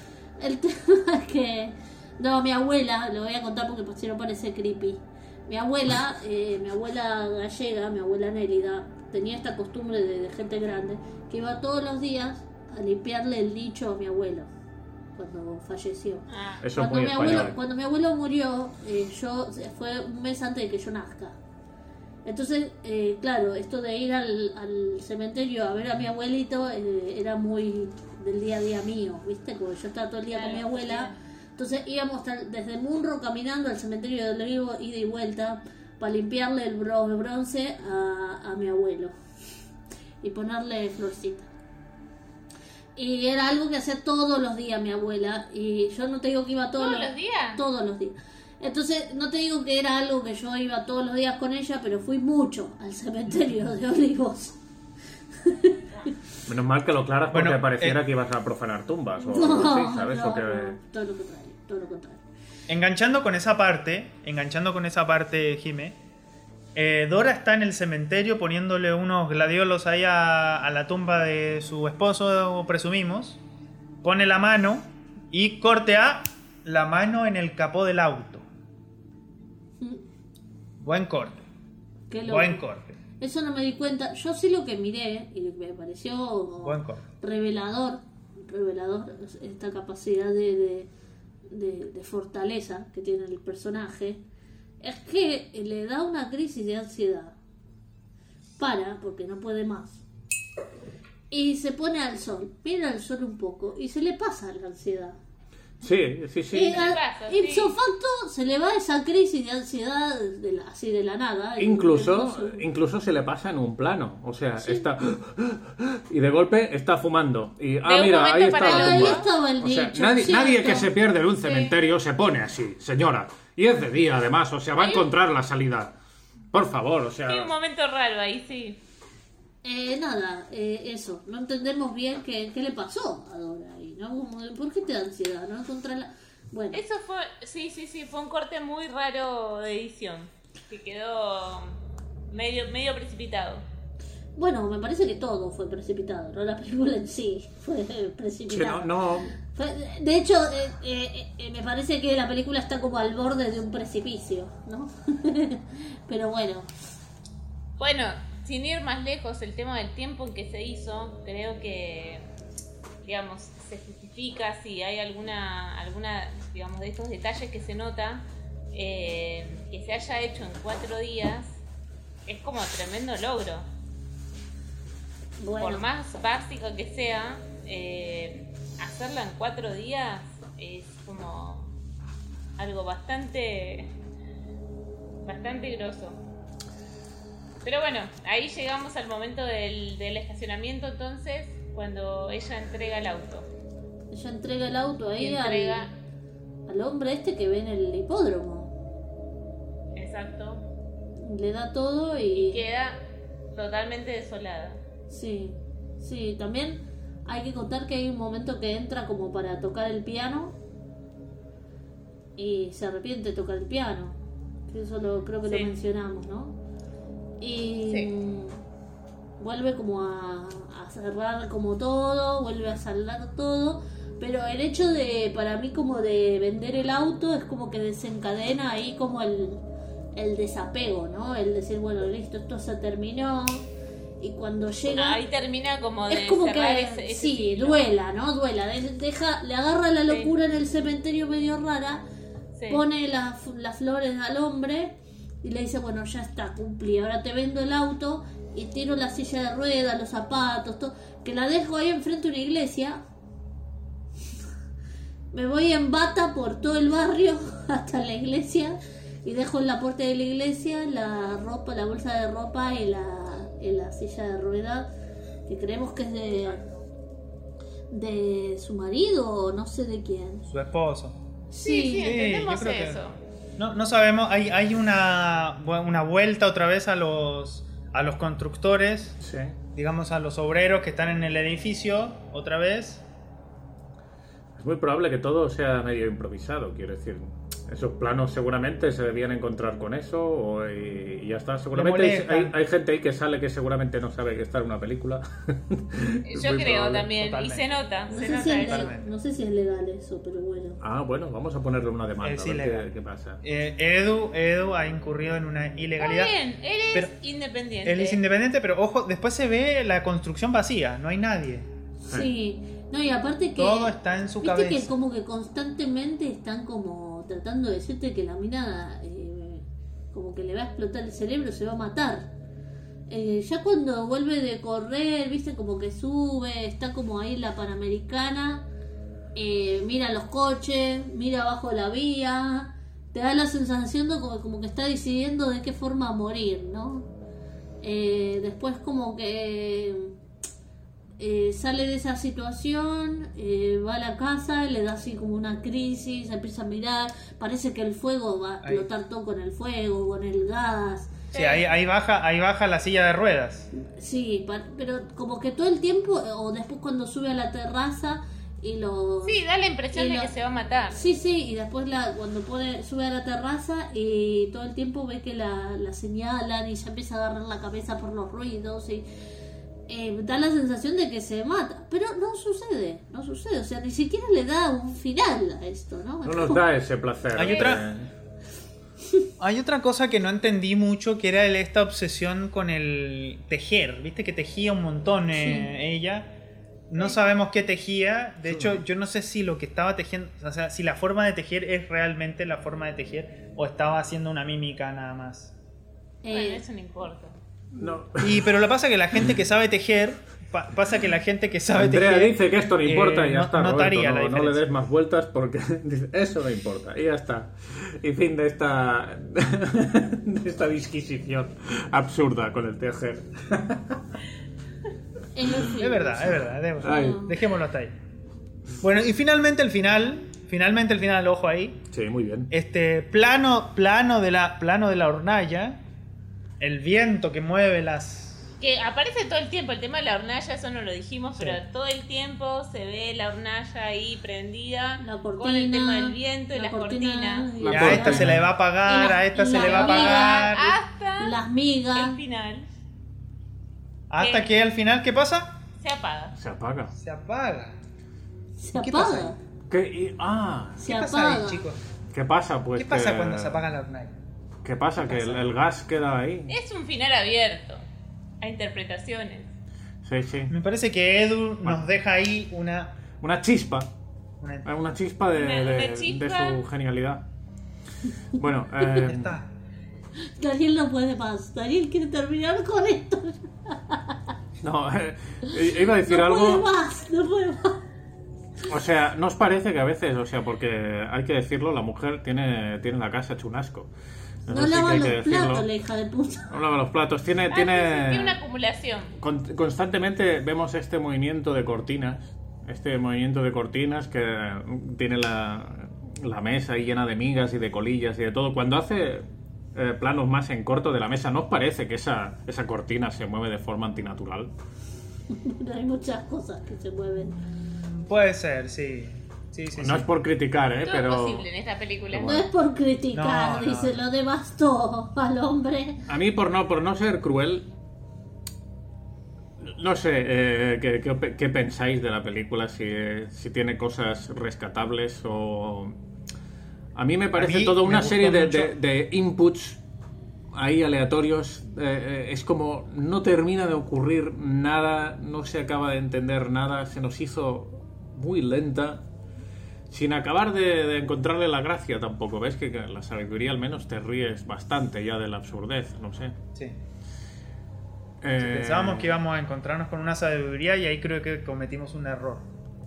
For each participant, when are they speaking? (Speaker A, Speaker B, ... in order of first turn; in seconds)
Speaker A: 0.4-14.5, 15.2-21.4, 22.2-39.1, 40.2-41.5, 43.0-54.6, 55.4-55.8, 59.2-62.2, 82.1-82.6, 83.2-90.9, 91.5-94.2, 94.8-97.3, 98.6-100.0, 101.3-105.2, 106.5-112.6, 114.6-114.9, 118.6-120.9, 129.6-136.8, 144.4-156.7, 175.4-175.8, 194.1-195.9, 196.7-198.7, 201.2-202.6, 205.1-210.5, 212.4-214.2, 214.7-216.6, 217.4-218.6, 219.4-229.6, 230.1-233.7, 234.2-235.2, 236.1-242.0, 242.7-253.0, 255.3-264.9, 265.5-266.6, 267.9-270.5, 271.5-272.1, 298.1-300.8, 312.1-322.3, 323.1-328.6, 329.3-337.1, 337.8-340.1, 341.2-351.2, 353.8-359.4, 359.9-360.3, 360.9-369.1, 369.9-376.6, 385.3-385.7, 396.2-396.6, 415.3-417.3, 435.0-440.6, 441.2-442.2, 448.6-449.4, 450.8-451.6, 470.3-474.2, 476.0-477.8, 484.5-486.5, 505.3-507.4, 512.2-516.0
Speaker B: 16.3-16.6, 30.3-31.1, 46.8-47.6, 106.6-107.7, 117.8-119.3, 121.5-121.7, 124.8-125.0, 127.3-128.8, 136.7-141.8, 142.3-143.6, 157.8-162.2, 163.0-171.6, 172.3-173.7, 175.6-181.7, 182.6-183.9, 185.2-186.2, 187.6-193.5, 195.2-195.9, 199.9-200.6, 202.5-203.0, 203.5-204.8, 215.4-215.7, 234.9-237.8, 242.5-242.8, 271.6-273.2, 296.2-298.9, 306.0-308.2, 351.3-351.7, 359.2-361.0, 396.3-397.4, 428.6-437.5, 439.0-441.4, 441.9-442.6, 444.2-444.5, 445.8-446.3, 456.5-457.8, 458.4-459.5, 465.3-466.6, 487.5-489.1, 510.9-512.4
Speaker C: 16.6-17.6, 56.5-60.8, 105.8-106.9, 111.6-125.9, 126.5-127.5, 148.5-149.3, 279.2-279.6, 284.6-297.1, 300.8-303.4, 376.2-378.1, 388.4-388.8, 397.7-398.5, 401.7-414.0, 416.8-417.3, 421.9-422.5, 437.6-438.5, 446.3-446.9, 449.7-450.8, 452.1-453.6, 454.6-456.6, 460.0-460.5, 463.2-463.9, 464.6-467.2, 468.4-469.4, 474.6-476.7, 478.7-483.9, 484.4-485.6, 486.5-488.4, 489.2-504.5, 509.8-511.5, 512.1-512.5, 516.1-517.7, 519.6-525.9, 526.9-529.8, 530.5-539.0, 539.9-546.4, 548.2-549.2
Speaker D: 57.3-58.0, 62.7-66.0, 66.7-73.4, 74.0-78.5, 80.8-81.4, 82.3-82.9, 86.6-87.0, 270.5-271.1, 272.0-273.0, 273.6-279.2, 279.7-283.0, 291.7-292.5, 297.1-297.7, 298.6-299.1, 302.2-302.9, 303.4-306.3, 307.8-311.7, 313.6-314.9, 351.3-353.7, 377.3-377.8, 379.4-386.3, 386.9-395.5, 398.2-404.6, 415.7-417.9, 418.8-421.8, 422.5-425.8, 426.6-428.5, 437.7-440.8, 444.1-445.5, 446.9-447.8, 448.7-449.3, 450.8-451.8, 452.8-454.1, 455.0-455.5, 460.5-463.0, 464.4-464.7, 469.0-469.5, 507.7-510.1, 513.1-514.0, 527.4-528.7, 548.4-552.5